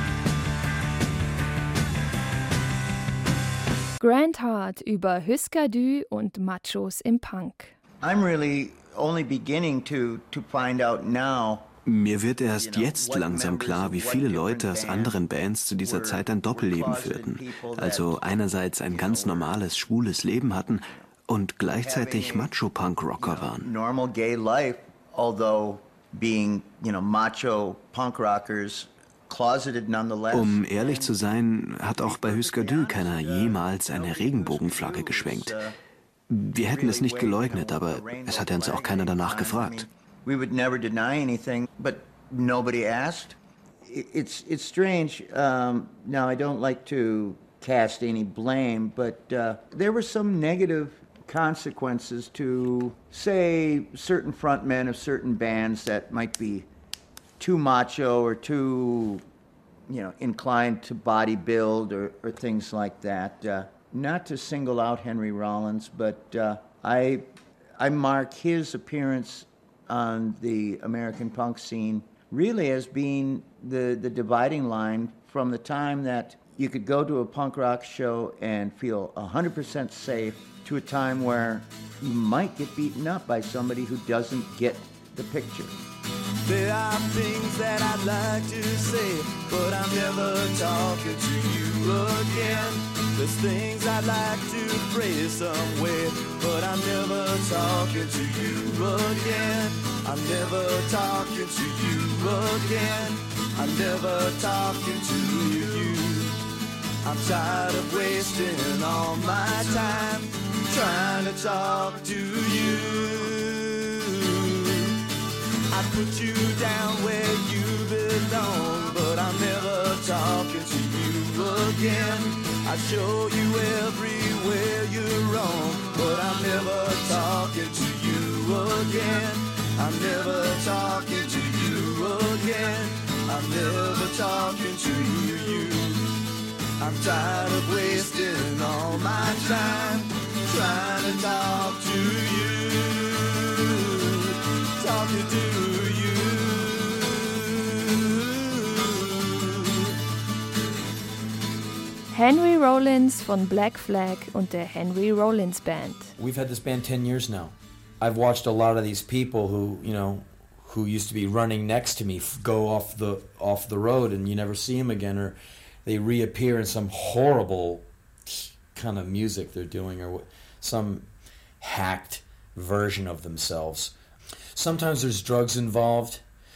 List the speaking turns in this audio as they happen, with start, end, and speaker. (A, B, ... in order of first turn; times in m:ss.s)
0:04.0-0:07.8 A
0:08.0-0:11.7 B
0:11.9-0:23.7 C
0:12.5-0:15.2 B
0:15.8-0:18.3 B
0:18.9-0:19.5 B
0:21.8-0:22.5 B
0:23.2-0:31.2 B
0:30.3-0:35.6 C
0:31.9-0:35.7 B
0:36.3-0:39.8 C
0:36.6-0:56.7 B
0:57.4-0:59.2 B
0:59.9-1:07.3 B
1:07.8-1:25.8 B
1:26.4-1:46.4 D
1:47.0-1:54.9 D
1:55.7-2:16.1 D
2:16.8-2:29.9 D
2:32.1-2:36.1 A
2:36.2-2:51.1 E
2:51.6-2:53.9 E
2:54.5-2:56.2 E